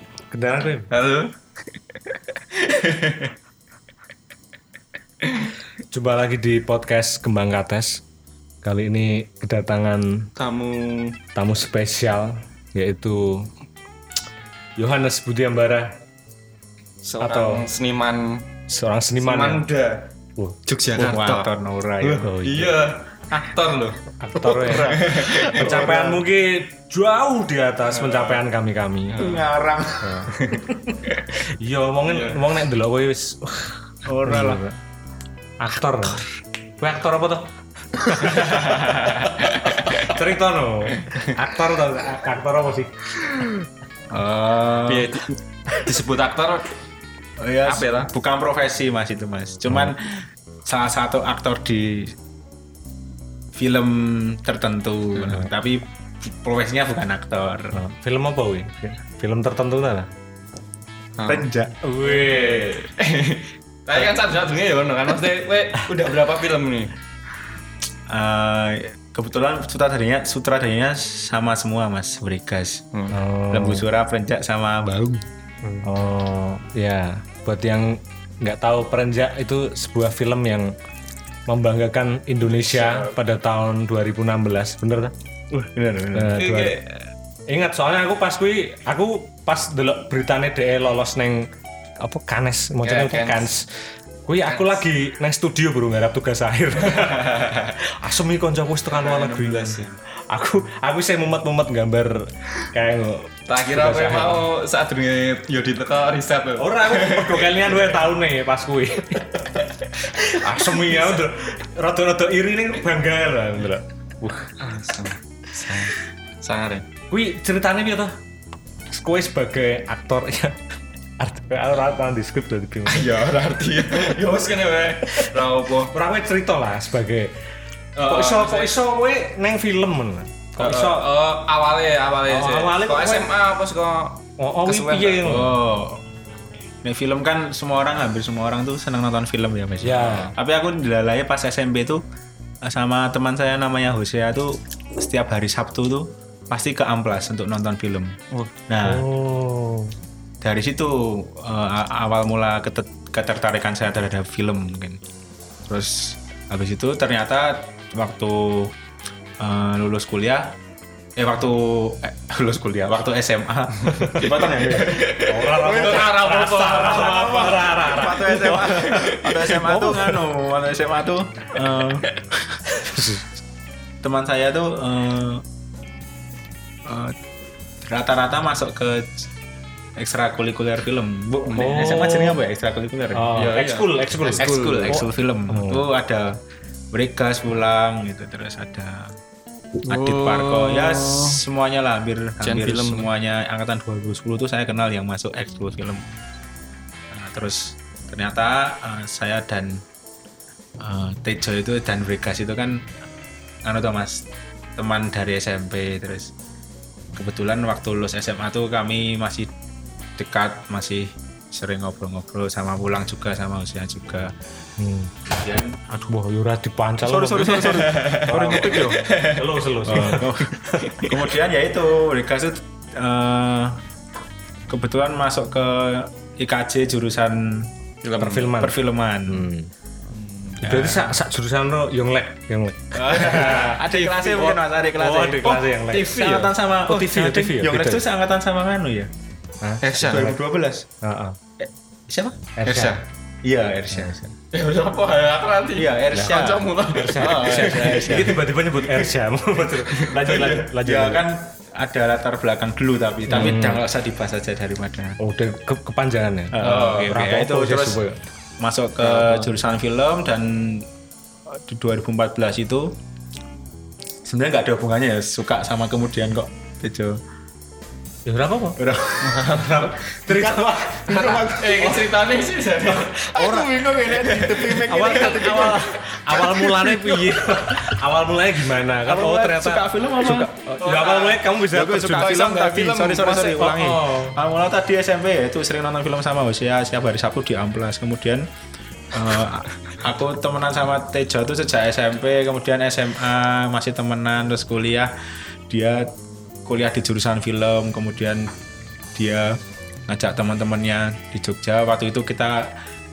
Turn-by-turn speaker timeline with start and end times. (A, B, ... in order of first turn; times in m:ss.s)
0:00.3-0:00.9 A
0:00.9-0:03.3 B
0:05.9-0:08.0 A
0:08.6-0:10.3 A
0:10.4-0:11.2 B
0:11.4-0:13.5 A
0:14.8-0:15.9 A
0:17.0-0:18.5 B
0:17.2-0:17.6 A
0:18.7-0:19.6 A
0:19.2-0:20.1 B
0:20.7-0:21.5 B
0:21.0-0:22.4 C
0:22.0-0:25.9 B
0:22.1-0:22.8 A
0:24.2-0:29.2 A
0:24.6-0:26.2 C
0:27.9-0:28.4 B
0:29.1-0:29.5 B
0:29.2-0:31.0 C
0:30.0-0:30.3 A
0:30.3-0:31.2 B
0:31.6-0:34.8 A
0:32.0-0:32.6 B
0:34.0-0:34.6 C
0:35.6-0:36.2 A
0:36.8-0:37.5 A
0:38.1-0:38.5 A
0:38.2-0:38.9 C
0:38.3-0:40.2 B
0:39.9-0:43.0 A
0:44.1-0:45.1 C
0:44.8-0:46.7 B
0:47.4-0:52.2 C
0:47.6-0:48.1 B
0:53.6-0:57.8 C
0:57.7-1:00.1 A
1:01.2-1:01.5 B
1:01.3-1:01.8 C
1:01.8-1:02.8 A
1:02.0-1:06.9 B
1:08.1-1:12.8 C
1:13.1-1:13.9 A
1:13.5-1:15.3 C
1:15.8-1:20.7 A
1:21.5-1:25.1 A
1:22.6-1:23.1 B
1:25.5-1:26.3 C
1:26.1-1:26.8 A
1:26.3-1:27.1 B
1:27.5-1:31.5 A
1:32.0-1:33.7 A
1:32.8-1:33.5 B
1:34.2-1:44.4 A
1:34.4-1:34.8 B
1:37.0-1:37.7 B
1:38.9-1:40.0 B
1:43.5-1:48.0 B
1:46.6-1:49.3 A
1:50.0-1:54.5 A
1:54.6-1:56.9 B
1:57.1-1:58.2 A
1:58.9-2:00.6 A
2:01.2-2:03.1 A
2:02.9-2:05.9 B
2:05.9-2:07.3 A
2:08.0-2:08.8 B
2:08.0-2:11.1 A
2:10.6-2:15.3 B
2:12.3-2:13.3 A
2:14.4-2:15.6 A
2:15.2-2:16.0 C
2:16.8-2:22.0 C
2:19.8-2:20.3 A
2:22.6-2:28.2 C
2:28.7-2:29.0 C
2:28.8-2:29.9 A
2:30.4-2:35.0 C
2:35.7-2:38.7 C
2:39.4-2:40.6 C
2:41.2-2:45.1 C
2:44.0-2:47.6 B
2:44.0-2:44.3 A
2:45.2-2:50.2 A
2:45.6-2:46.1 C
2:46.8-2:53.2 C
2:48.5-2:49.5 B
2:52.7-2:53.2 A
2:54.0-2:55.4 C
2:56.8-2:57.2 C
2:57.8-2:59.3 C
3:00.0-3:03.3 C
3:01.5-3:01.9 B
3:01.6-3:02.4 A
3:03.1-3:05.8 A
3:03.4-3:05.0 B
3:04.4-3:06.3 C
3:06.9-3:09.2 C
3:09.9-3:11.4 B
3:09.9-3:16.1 C
3:12.4-3:13.1 B
3:17.1-3:19.8 C
3:20.8-3:22.9 C
3:23.6-3:26.3 C
3:27.1-3:29.5 C
3:30.2-3:34.3 C
3:34.8-3:35.2 A
3:35.4-3:36.1 C
3:36.1-3:41.0 A
3:37.0-3:39.2 C
3:37.6-3:40.2 B
3:39.8-3:43.8 C
3:40.8-3:41.2 B
3:44.7-3:47.7 C
3:48.0-3:48.5 B
3:48.2-3:49.7 A
3:48.5-3:49.5 C
3:50.1-3:50.6 B
3:50.6-3:53.8 A
3:50.6-3:51.2 C
3:52.9-3:59.1 C
3:53.1-3:54.6 B
3:55.0-3:56.2 A
3:55.9-3:56.5 B
3:56.9-3:58.0 A
3:59.6-4:00.3 A
3:59.8-4:00.4 B
4:00.0-4:00.9 C
4:01.0-4:01.4 A
4:01.6-4:02.5 C
4:02.6-4:03.0 A
4:02.7-4:03.0 B
4:03.4-4:04.4 C
4:03.9-4:04.2 A
4:04.5-4:09.1 B
4:05.8-4:08.4 C
4:06.1-4:11.2 A
4:09.7-4:10.7 B
4:10.8-4:15.2 C
4:13.3-4:13.8 A
4:13.4-4:13.7 B
4:15.2-4:18.2 A
4:16.5-4:18.0 C
4:16.6-4:17.1 B
4:18.6-4:20.9 C
4:19.0-4:19.5 A
4:21.5-4:23.0 C
4:24.2-4:27.2 C
4:28.3-4:28.8 A
4:28.8-4:32.1 C
4:29.2-4:30.0 B
4:29.6-4:31.4 A
4:31.1-4:33.2 B
4:32.8-4:38.0 C
4:33.4-4:33.7 A
4:34.1-4:35.4 B
4:34.8-4:42.6 A
4:39.0-4:40.6 C
4:40.8-4:41.6 B
4:41.6-4:48.5 C
4:42.1-4:43.6 B
4:43.5-4:44.4 A
4:49.1-4:55.1 C
4:55.7-4:56.1 C
4:56.6-4:58.5 C
4:59.2-5:02.7 C